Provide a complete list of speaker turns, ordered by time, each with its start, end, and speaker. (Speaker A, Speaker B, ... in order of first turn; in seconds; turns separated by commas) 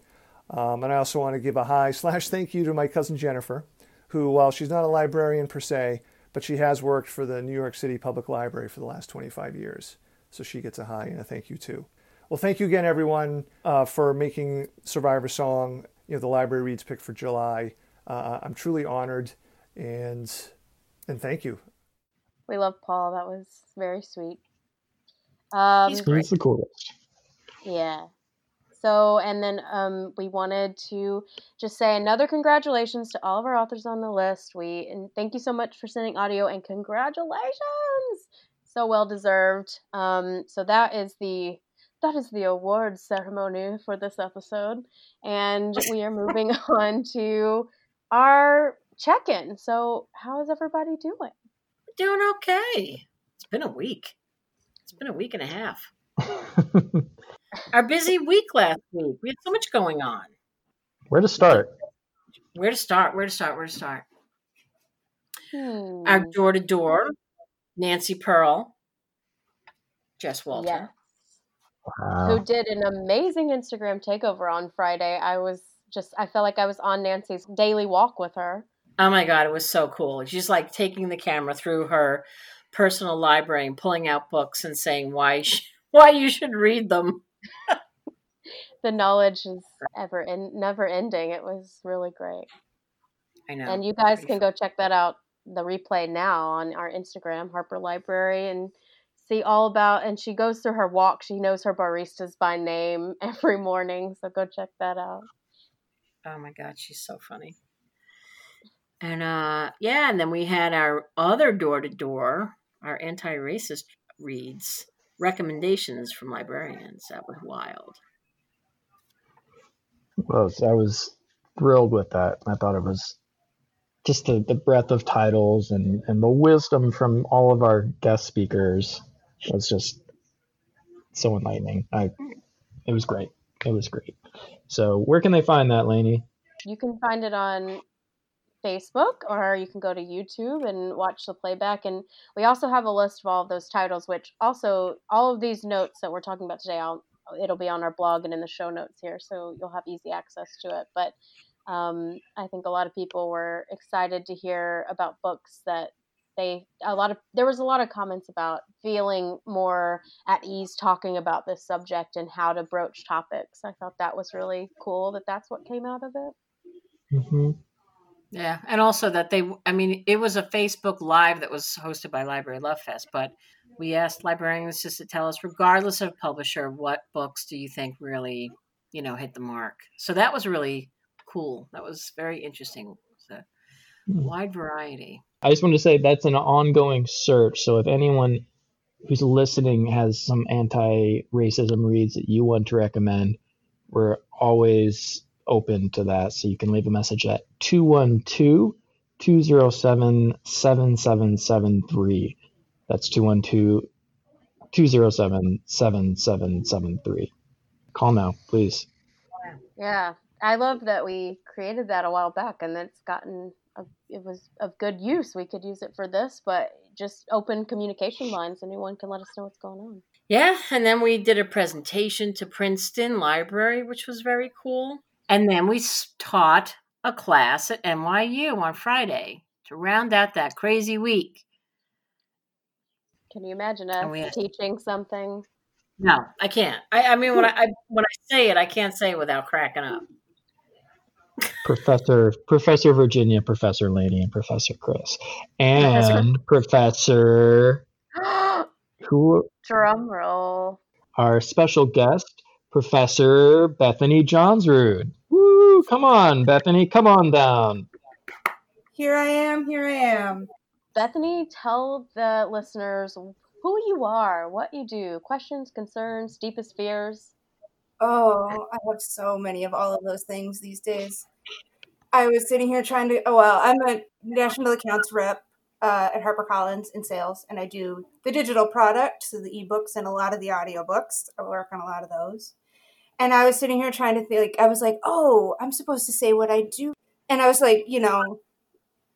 Speaker A: 0.5-20.5, Speaker A: 21.1-21.6, Speaker B: 22.5-24.4, Speaker B: 25.5-26.3, Speaker C: 25.9-26.9, Speaker B: 27.6-28.1, Speaker B: 28.8-51.4, Speaker D: 52.0-54.2, Speaker D: 54.9-55.9, Speaker C: 56.4-57.1, Speaker D: 57.7-60.3, Speaker C: 61.1-61.7, Speaker D: 62.5-64.1, Speaker B: 65.5-66.4, Speaker D: 66.0-67.2, Speaker D: 67.8-68.7, Speaker D: 70.2-70.9, Speaker B: 70.5-70.9, Speaker C: 72.0-72.4, Speaker B: 72.2-78.7, Speaker D: 79.0-87.8, Speaker B: 88.8-92.5, Speaker D: 93.5-94.4, Speaker B: 93.7-105.3, Speaker D: 106.2-107.6, Speaker D: 109.0-118.0, Speaker C: 120.3-123.2, Speaker C: 124.0-130.0, Speaker C: 131.1-132.2, Speaker C: 132.9-136.3, Speaker B: 136.7-137.8, Speaker B: 138.6-151.1, Speaker B: 151.7-166.3, Speaker C: 167.1-167.6, Speaker D: 168.3-183.4, Speaker D: 184.2-185.2, Speaker C: 185.4-188.4, Speaker C: 189.0-193.4, Speaker C: 193.9-203.9, Speaker C: 204.7-207.3, Speaker C: 207.9-208.9, Speaker B: 209.8-220.0, Speaker D: 220.3-231.4, Speaker B: 233.3-235.5, Speaker D: 234.0-234.4, Speaker D: 236.0-240.1, Speaker C: 241.6-247.8, Speaker B: 248.2-248.7, Speaker C: 249.0-249.5, Speaker B: 249.6-250.8, Speaker C: 251.2-257.9, Speaker E: 258.9-260.5, Speaker B: 260.9-267.3, Speaker E: 268.0-271.3, Speaker E: 272.1-282.6, Speaker E: 283.2-288.4